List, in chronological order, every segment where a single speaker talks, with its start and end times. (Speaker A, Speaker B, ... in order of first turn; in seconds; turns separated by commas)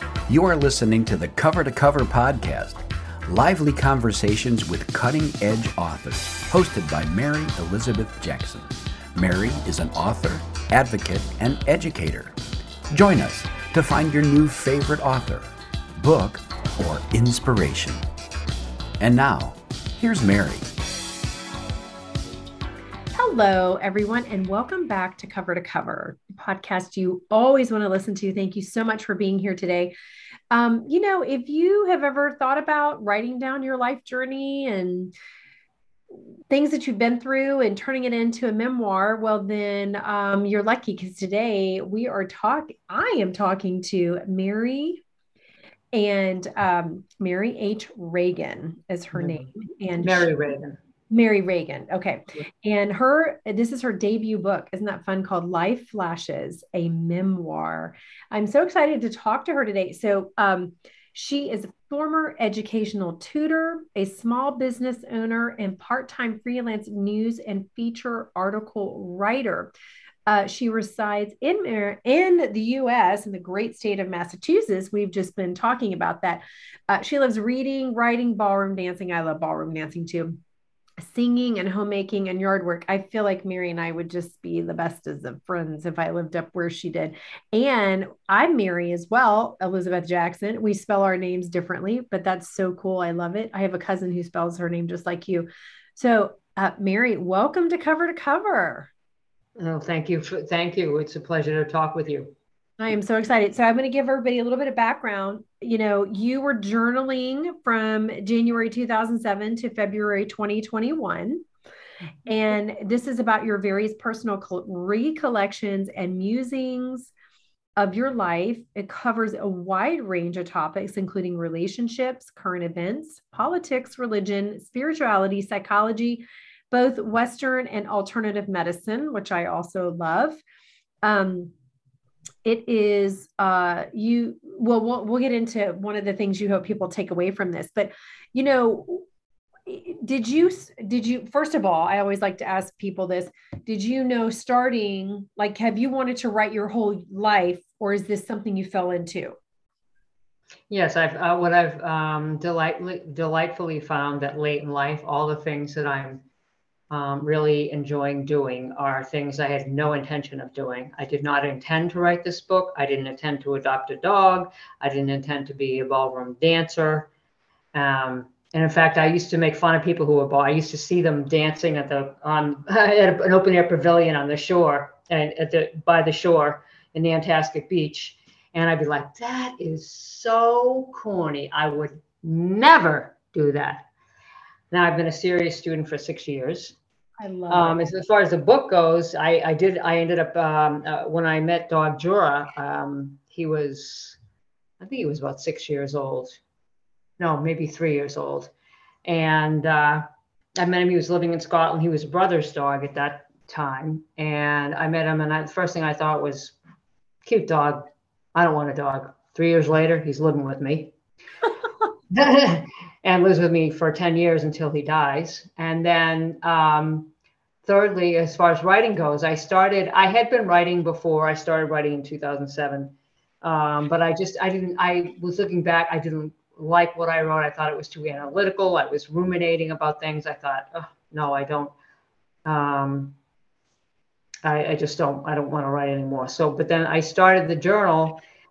Speaker A: 0.3-12.3, Speaker A: 12.9-15.5, Speaker A: 16.0-18.0, Speaker A: 19.0-20.7, Speaker B: 23.1-29.9, Speaker B: 30.5-35.1, Speaker B: 36.5-45.0, Speaker B: 45.9-50.3, Speaker C: 49.1-49.5, Speaker C: 50.0-50.8, Speaker B: 51.1-69.7, Speaker B: 70.3-80.4, Speaker B: 81.0-98.9, Speaker C: 99.6-102.3, Speaker B: 102.8-111.4, Speaker B: 112.3-117.1, Speaker B: 117.8-130.4, Speaker B: 131.0-131.5, Speaker B: 132.4-139.0, Speaker B: 139.7-149.3, Speaker C: 150.7-156.2, Speaker C: 156.9-167.1, Speaker C: 167.7-183.9, Speaker C: 184.7-186.8, Speaker B: 187.2-187.9, Speaker C: 187.5-194.2, Speaker C: 194.8-196.4, Speaker C: 197.2-198.5, Speaker C: 199.0-200.0, Speaker C: 200.6-206.6, Speaker C: 207.2-210.9, Speaker C: 212.1-217.1, Speaker C: 217.6-231.7, Speaker C: 232.4-233.2, Speaker C: 234.4-238.2